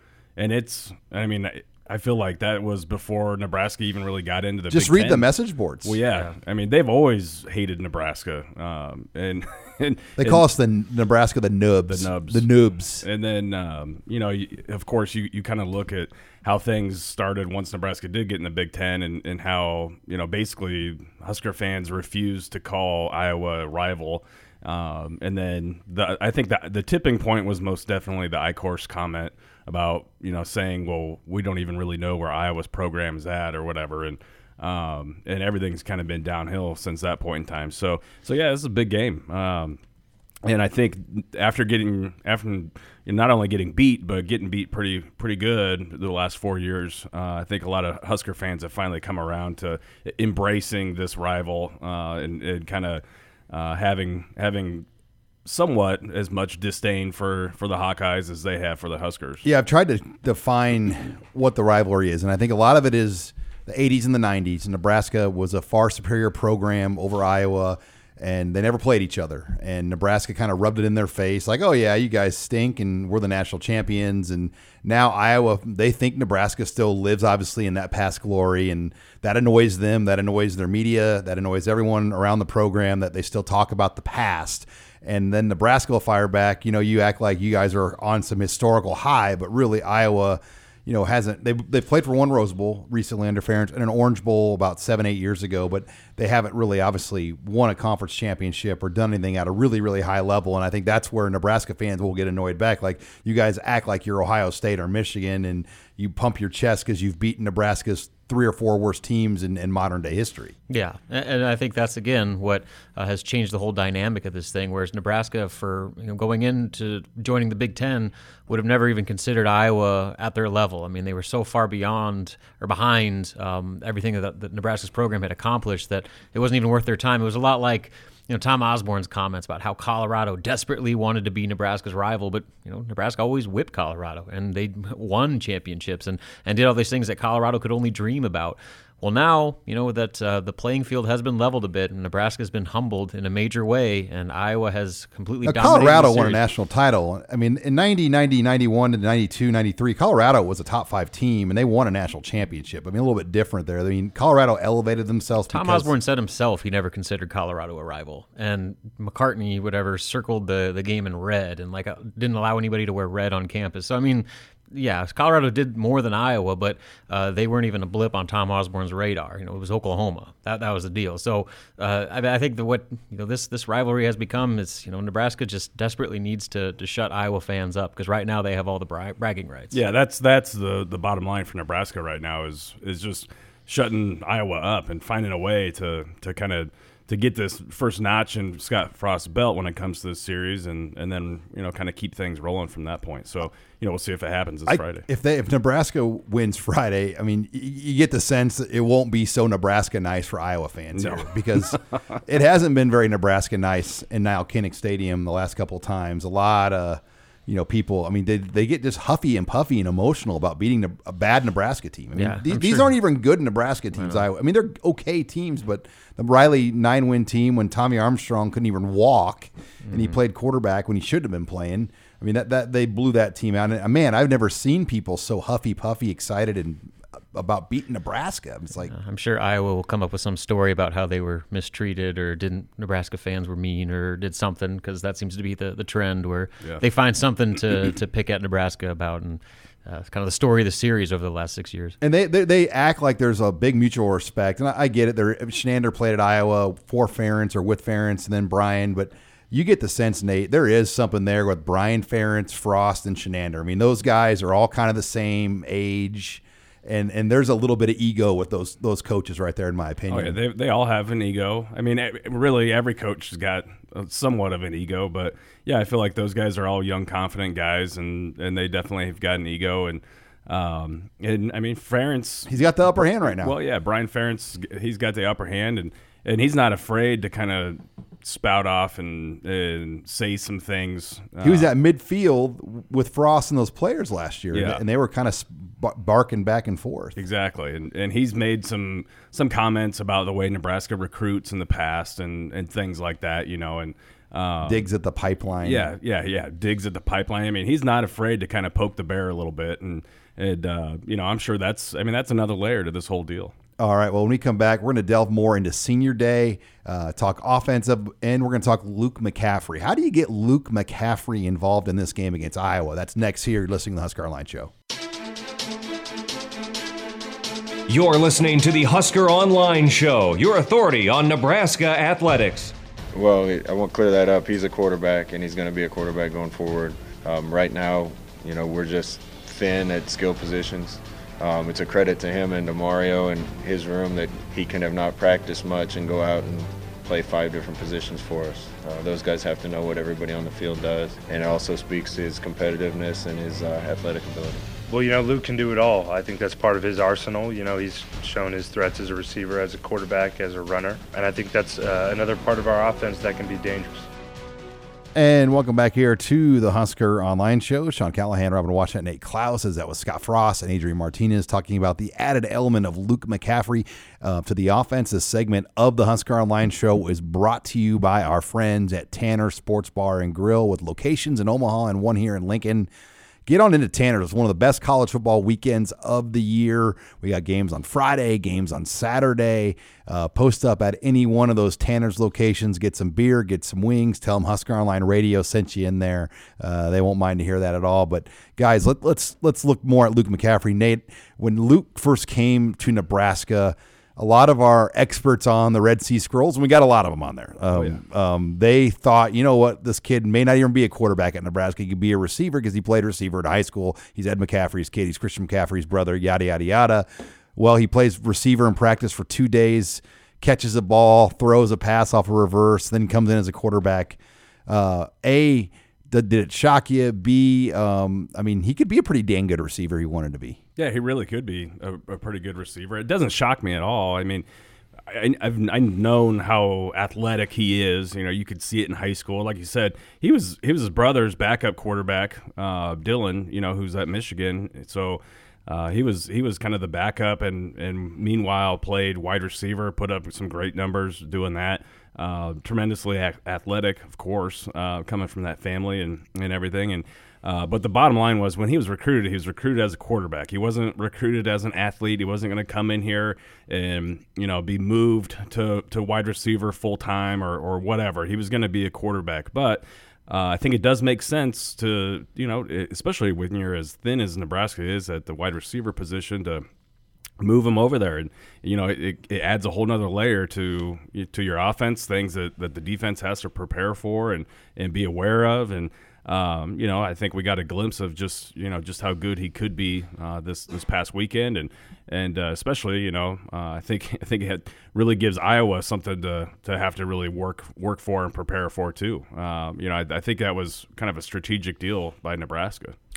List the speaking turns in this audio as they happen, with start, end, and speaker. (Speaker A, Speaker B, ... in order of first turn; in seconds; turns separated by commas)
Speaker A: 0.4-5.3, Speaker B: 4.7-6.0, Speaker A: 5.8-10.4, Speaker B: 10.2-13.1, Speaker A: 11.9-12.5, Speaker A: 13.0-39.8, Speaker A: 40.4-54.9, Speaker A: 55.5-59.5, Speaker B: 59.4-110.5, Speaker C: 110.7-146.4, Speaker B: 145.4-155.9, Speaker C: 155.5-179.8, Speaker A: 179.7-195.1, Speaker B: 194.7-228.9, Speaker A: 200.9-201.8, Speaker C: 212.2-212.9, Speaker C: 213.9-214.2, Speaker C: 219.8-220.2, Speaker C: 228.9-242.0, Speaker B: 242.0-260.4, Speaker A: 260.1-281.7, Speaker B: 272.5-273.6, Speaker B: 281.4-287.2, Speaker A: 284.5-284.8, Speaker A: 287.1-294.8, Speaker B: 294.6-295.9, Speaker A: 295.6-303.5, Speaker B: 303.8-314.7, Speaker D: 317.9-322.7, Speaker E: 323.1-344.6, Speaker F: 344.9-354.1, Speaker B: 355.1-372.9, Speaker B: 373.4-420.6, Speaker A: 420.8-424.4, Speaker A: 425.1-466.6, Speaker A: 467.4-492.9